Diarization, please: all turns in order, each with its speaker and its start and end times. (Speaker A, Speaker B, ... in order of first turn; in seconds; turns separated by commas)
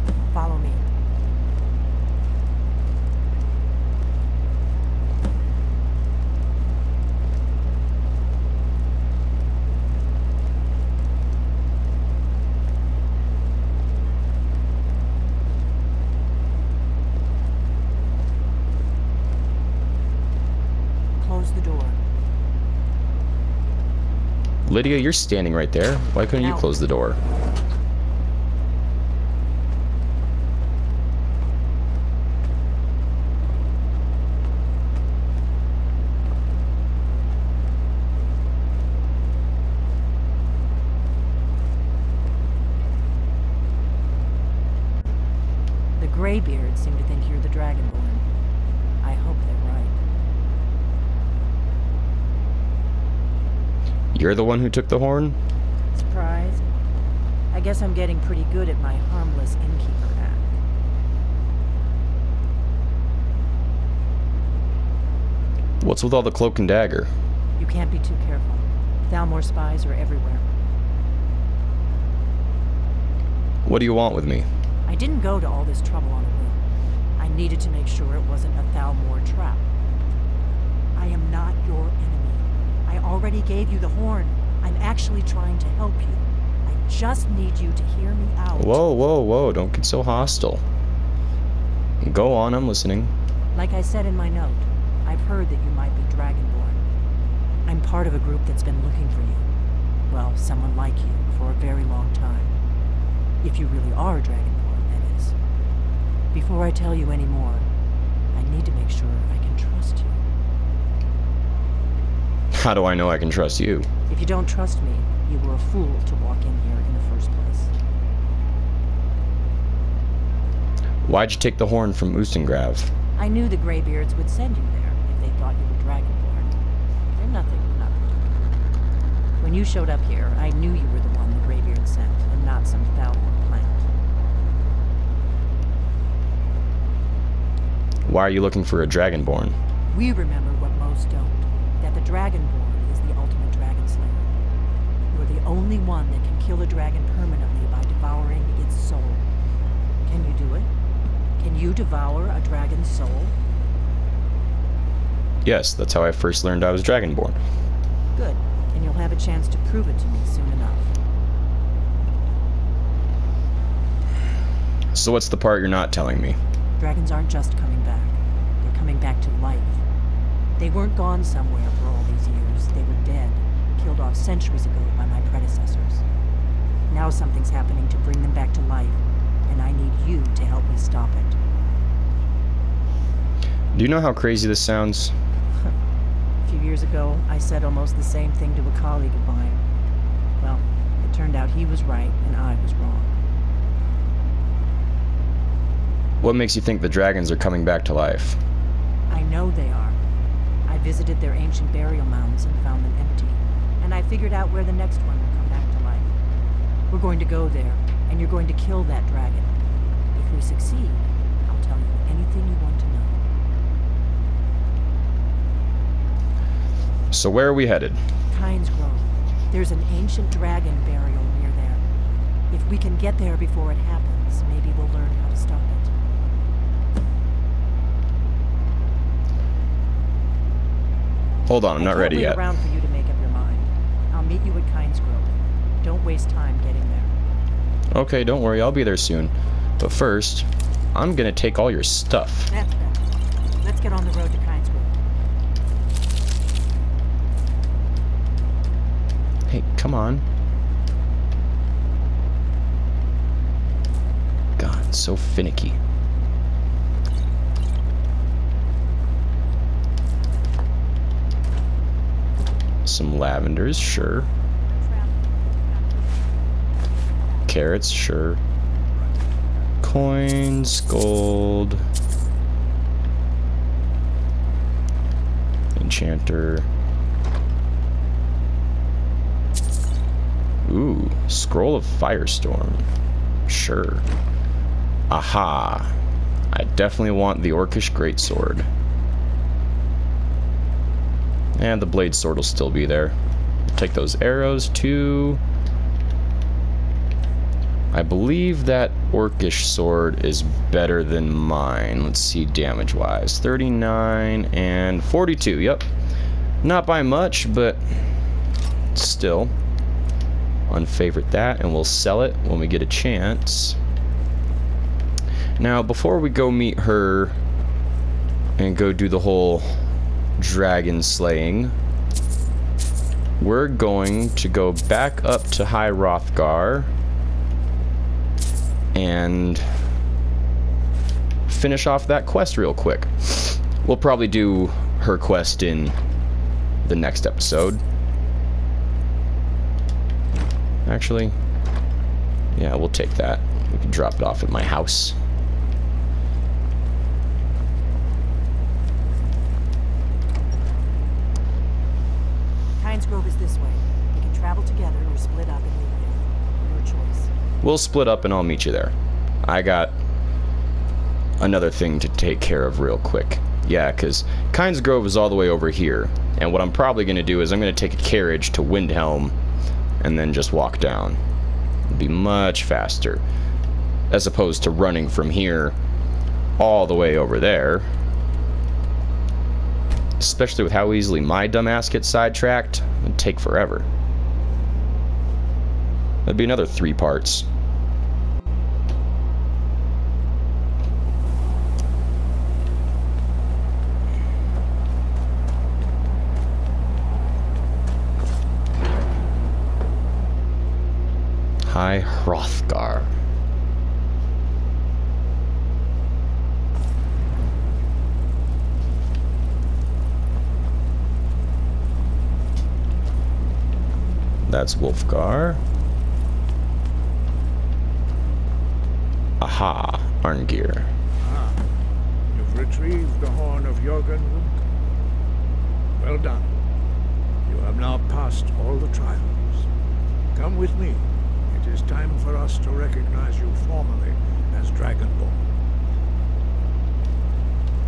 Speaker A: 0.3-0.9, Speaker A: 21.2-22.0, Speaker B: 24.6-27.2, Speaker A: 26.3-26.7, Speaker A: 46.0-48.3, Speaker A: 49.0-50.0, Speaker B: 54.1-55.4, Speaker A: 55.9-56.7, Speaker A: 57.5-60.5, Speaker B: 65.8-67.1, Speaker A: 67.6-70.6, Speaker B: 73.6-74.5, Speaker A: 74.9-76.6, Speaker A: 77.2-79.7, Speaker A: 81.0-88.8, Speaker B: 88.5-90.6, Speaker B: 92.0-93.1, Speaker A: 93.5-96.8, Speaker A: 97.7-99.4, Speaker A: 100.1-102.5, Speaker A: 103.4-105.3, Speaker A: 106.3-107.7, Speaker A: 108.3-110.2, Speaker B: 112.5-113.9, Speaker A: 114.1-117.7, Speaker B: 121.0-122.9, Speaker A: 123.2-126.5, Speaker A: 127.1-128.4, Speaker A: 129.4-133.9, Speaker B: 138.1-139.6, Speaker A: 139.9-144.3, Speaker A: 145.1-149.2, Speaker A: 150.0-150.7, Speaker A: 151.4-153.3, Speaker B: 155.4-157.4, Speaker A: 158.1-160.9, Speaker B: 164.9-166.4, Speaker A: 166.8-169.8, Speaker A: 170.6-176.0, Speaker A: 176.9-181.4, Speaker B: 183.7-185.1, Speaker A: 186.4-189.6, Speaker A: 190.4-193.2, Speaker B: 196.2-198.4, Speaker A: 199.1-200.0, Speaker A: 200.7-206.1, Speaker A: 206.9-209.6, Speaker A: 210.1-213.2, Speaker B: 217.1-218.0, Speaker A: 218.3-221.8, Speaker A: 222.5-225.9, Speaker B: 231.5-232.4, Speaker A: 231.8-235.3, Speaker A: 235.8-237.1, Speaker B: 237.9-242.5, Speaker A: 242.5-243.1, Speaker A: 243.6-245.0, Speaker B: 249.5-250.2, Speaker B: 254.6-255.8, Speaker B: 262.9-264.3, Speaker B: 267.5-268.4, Speaker B: 269.8-271.8, Speaker B: 275.8-276.7, Speaker B: 280.6-282.9, Speaker B: 283.5-284.1, Speaker B: 285.1-285.9, Speaker B: 286.5-288.7, Speaker B: 291.6-293.1, Speaker B: 293.7-295.4, Speaker B: 297.9-305.9, Speaker B: 306.6-308.0, Speaker B: 308.9-309.5, Speaker B: 310.7-313.8, Speaker B: 315.6-317.4, Speaker B: 318.6-319.8, Speaker B: 320.4-321.8, Speaker B: 323.4-326.9, Speaker B: 328.9-329.6, Speaker B: 331.5-336.0, Speaker B: 336.8-337.8, Speaker B: 340.9-341.4, Speaker B: 342.5-345.2, Speaker A: 352.8-357.3, Speaker B: 357.6-359.9, Speaker B: 361.4-369.4, Speaker B: 370.0-371.2, Speaker B: 371.9-373.2, Speaker B: 374.1-375.8, Speaker B: 376.6-377.9, Speaker B: 380.2-383.9, Speaker B: 386.2-387.5, Speaker B: 401.6-403.1, Speaker B: 414.5-415.6, Speaker B: 419.4-420.9, Speaker C: 421.2-421.6, Speaker C: 422.3-424.6, Speaker C: 426.0-426.5, Speaker C: 427.5-429.7, Speaker C: 430.3-435.4